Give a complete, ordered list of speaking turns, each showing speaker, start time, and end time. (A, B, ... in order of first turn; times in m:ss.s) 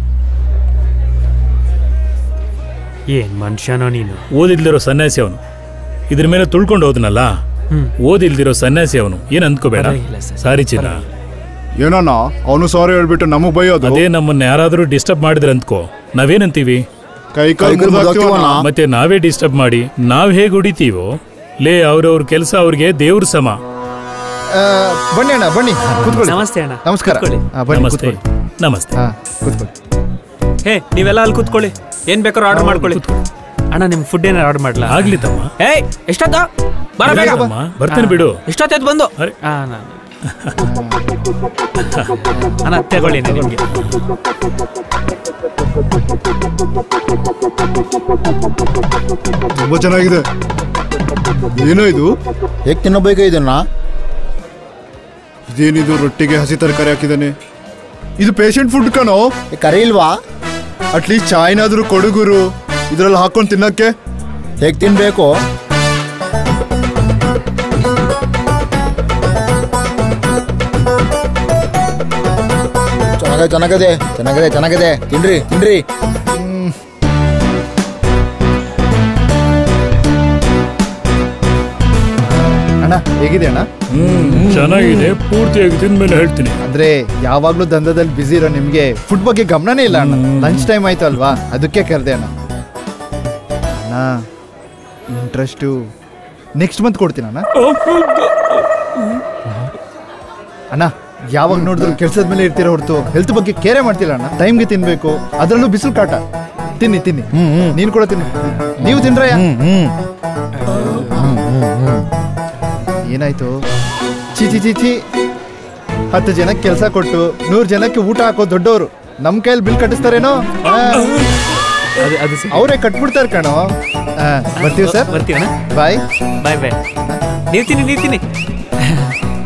0:03.1-0:04.2 A
0:04.3-0:05.4 B
0:06.1-0:07.3 B
0:08.0-0:11.0 B
0:09.7-0:11.0 A
0:11.8-0:14.0 C
0:13.8-0:16.8 B
0:17.3-0:18.6 C
0:17.6-0:18.7 D
0:18.5-0:23.6 B
0:24.5-0:28.2 E
0:25.9-0:26.3 B
0:26.2-0:27.4 A
0:27.7-0:29.0 B
0:29.0-0:29.7 E
0:30.6-0:33.1 A
0:31.4-0:31.7 E
0:32.5-0:32.9 E
0:32.8-0:33.1 B
0:33.7-0:35.0 A
0:34.8-0:35.5 B
0:35.6-0:40.0 A
0:37.0-0:37.5 E
0:37.0-0:38.4 B
0:40.2-0:40.6 B
0:40.6-0:41.0 E
0:41.8-0:42.2 B
0:42.5-0:43.6 E
0:42.6-0:43.6 A
0:49.5-0:50.2 C
0:51.5-0:52.2 C
0:52.6-0:53.6 D
0:55.5-0:57.4 C
0:58.2-0:59.3 C
0:59.5-1:00.1 D
1:00.9-1:03.9 C
1:04.6-1:05.3 D
1:13.2-1:15.8 D
1:16.3-1:16.7 E
1:22.3-1:23.7 E
1:23.9-1:26.6 B
1:26.6-1:32.3 E
1:29.9-1:30.7 B
1:33.8-1:34.1 E
1:35.1-1:35.8 E
1:36.6-1:37.5 E
1:37.6-1:39.7 B
1:40.7-1:46.2 E
1:41.6-1:42.0 D
1:46.8-1:49.4 E
1:47.3-1:47.8 D
1:48.8-1:49.9 D
1:51.0-1:52.1 D
1:53.1-1:53.5 E
1:54.3-1:55.0 E
1:56.1-2:01.2 E
2:02.0-2:02.7 A
2:02.5-2:03.7 E
2:04.2-2:05.1 E
2:04.6-2:05.5 A
2:05.7-2:06.0 E
2:06.4-2:06.8 A
2:07.5-2:08.2 A
2:08.8-2:09.1 A